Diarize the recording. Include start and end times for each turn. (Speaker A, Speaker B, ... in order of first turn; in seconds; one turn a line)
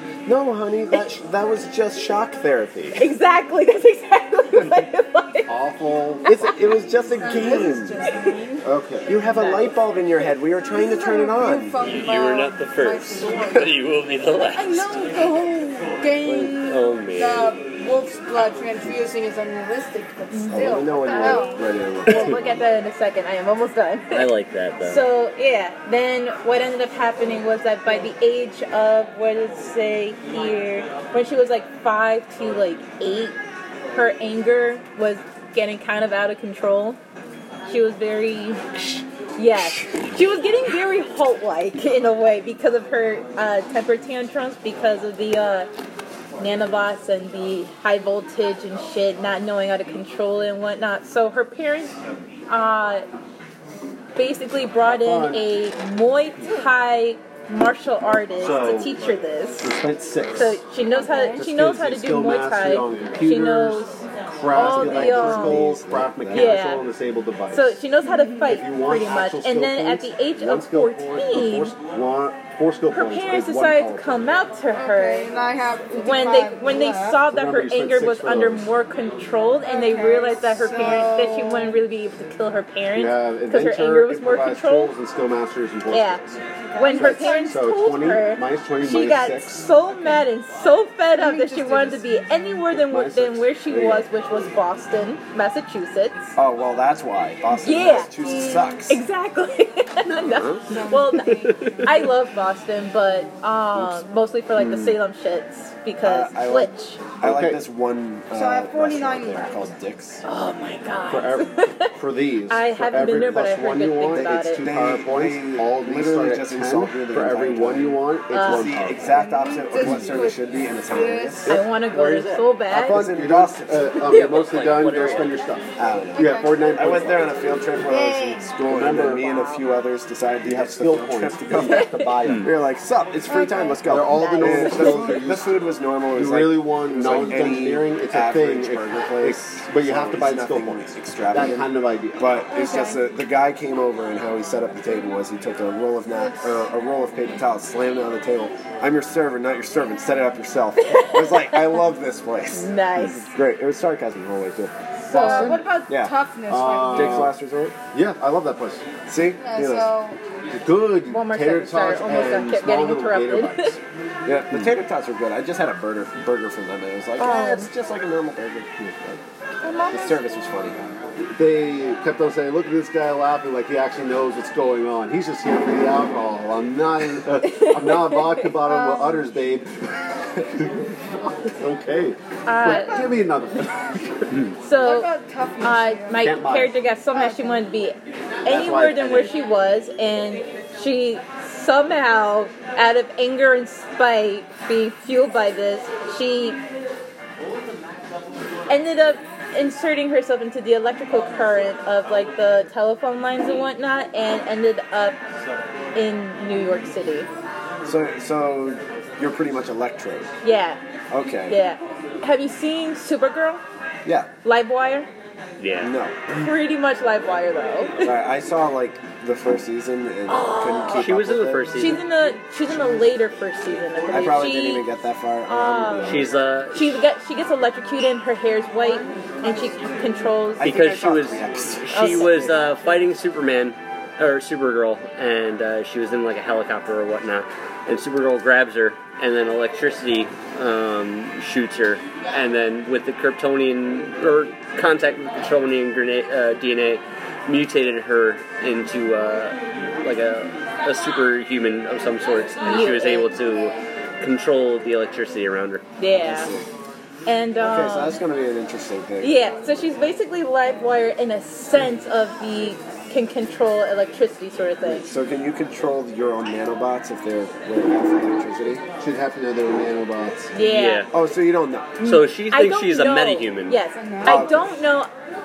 Speaker A: 0.3-3.0
Speaker B: 3.0-5.5
Speaker C: 5.5-6.5
Speaker A: 6.2-8.0
Speaker D: 7.2-8.7
Speaker C: 8.6-9.2
Speaker A: 9.1-11.8
Speaker B: 9.3-9.8
Speaker D: 10.7-13.8
Speaker E: 11.8-15.0
Speaker D: 14.3-21.6
Speaker A: 16.2-16.5
Speaker E: 16.6-17.6
Speaker B: 20.3-24.3
Speaker A: 20.5-22.4
Speaker E: 24.1-25.1
Speaker B: 24.8-33.4
Speaker B: 33.9-37.0
Speaker B: 37.7-38.6
Speaker B: 39.4-45.7
Speaker E: 39.6-40.0
Speaker B: 46.4-52.0
Speaker B: 52.5-53.1
Speaker B: 54.2-59.8
Speaker C: 54.8-55.5
Speaker C: 58.4-59.0
Speaker C: 59.6-60.6
Speaker B: 60.4-65.7
Speaker D: 60.9-61.4
Speaker C: 61.3-67.8
Speaker A: 64.5-66.6
Speaker B: 66.3-66.9
Speaker B: 67.5-71.7
Speaker D: 68.0-68.5
Speaker C: 68.4-74.3
Speaker B: 72.9-75.3
Speaker D: 74.7-77.2
Speaker B: 75.9-84.9
Speaker C: 77.3-78.7
Speaker D: 79.7-81.8
Speaker C: 82.9-89.7
Speaker B: 85.9-86.2
Speaker D: 86.7-87.6
Speaker B: 86.8-96.3
Speaker D: 91.1-92.1
Speaker C: 92.7-94.1
Speaker A: 96.4-99.0
Speaker B: 97.6-107.0
Speaker E: 100.2-100.6
Speaker D: 100.7-102.2
Speaker E: 101.3-101.7
Speaker A: 106.0-110.2
Speaker C: 107.2-107.6
Speaker D: 108.3-109.7
Speaker B: 110.2-111.9
Speaker C: 111.1-119.0
Speaker B: 112.5-114.7
Speaker A: 114.5-121.6
Speaker B: 118.3-118.8
Speaker D: 119.0-121.5
Speaker B: 121.5-123.0
Speaker E: 121.5-122.4
Speaker A: 122.7-124.0
Speaker C: 122.7-127.3
Speaker E: 124.0-125.4
Speaker A: 125.8-156.2
Speaker D: 126.1-127.0
Speaker D: 127.8-128.6
Speaker C: 128.7-129.3
Speaker C: 130.4-132.5
Speaker B: 131.6-132.1
Speaker E: 132.2-132.5
Speaker D: 133.3-135.1
Speaker C: 133.8-142.3
Speaker D: 142.5-143.1
Speaker B: 150.8-151.8
Speaker B: 152.5-153.3
Speaker C: 155.1-155.7
Speaker D: 155.1-157.3
Speaker C: 156.5-157.3
Speaker A: 156.9-157.8
Speaker C: 157.9-158.8
Speaker A: 159.1-160.0
Speaker D: 159.4-160.2
Speaker C: 160.5-163.8
Speaker B: 161.1-163.8
Speaker A: 164.2-169.2
Speaker C: 164.5-164.8
Speaker B: 167.2-167.7
Speaker B: 169.6-170.2
Speaker A: 169.9-170.8
Speaker C: 171.3-184.4
Speaker B: 177.4-178.5
Speaker D: 178.6-179.3
Speaker B: 182.5-183.1
Speaker B: 184.6-196.6
Speaker D: 184.8-186.3
Speaker C: 186.2-186.8
Speaker D: 187.1-187.6
Speaker C: 188.5-189.3
Speaker B: 198.7-205.2
Speaker B: 205.9-207.3
Speaker A: 207.8-210.3
Speaker B: 210.4-210.8
Speaker A: 211.1-211.6
Speaker B: 211.5-213.6
Speaker A: 214.1-214.3
Speaker B: 214.4-215.1
Speaker E: 215.6-215.9
Speaker A: 215.8-216.2
Speaker B: 216.3-218.0
Speaker A: 218.0-221.8
Speaker B: 220.3-221.1
Speaker E: 220.9-222.0
Speaker B: 221.8-224.9
Speaker A: 224.1-226.4
Speaker B: 225.5-230.8
Speaker E: 226.0-227.0
Speaker A: 230.6-232.6
Speaker E: 230.6-255.8
Speaker B: 231.9-232.6
Speaker B: 252.6-253.3
Speaker B: 256.0-256.5
Speaker A: 256.1-256.7
Speaker B: 257.3-258.2
Speaker A: 257.6-259.4
Speaker B: 259.2-265.1
Speaker A: 264.9-268.9
Speaker C: 269.0-270.5
Speaker B: 270.5-271.1
Speaker E: 270.6-271.1
Speaker A: 271.1-272.0
Speaker B: 272.0-275.1
Speaker E: 272.0-273.8
Speaker D: 273.9-274.5
Speaker A: 274.2-274.7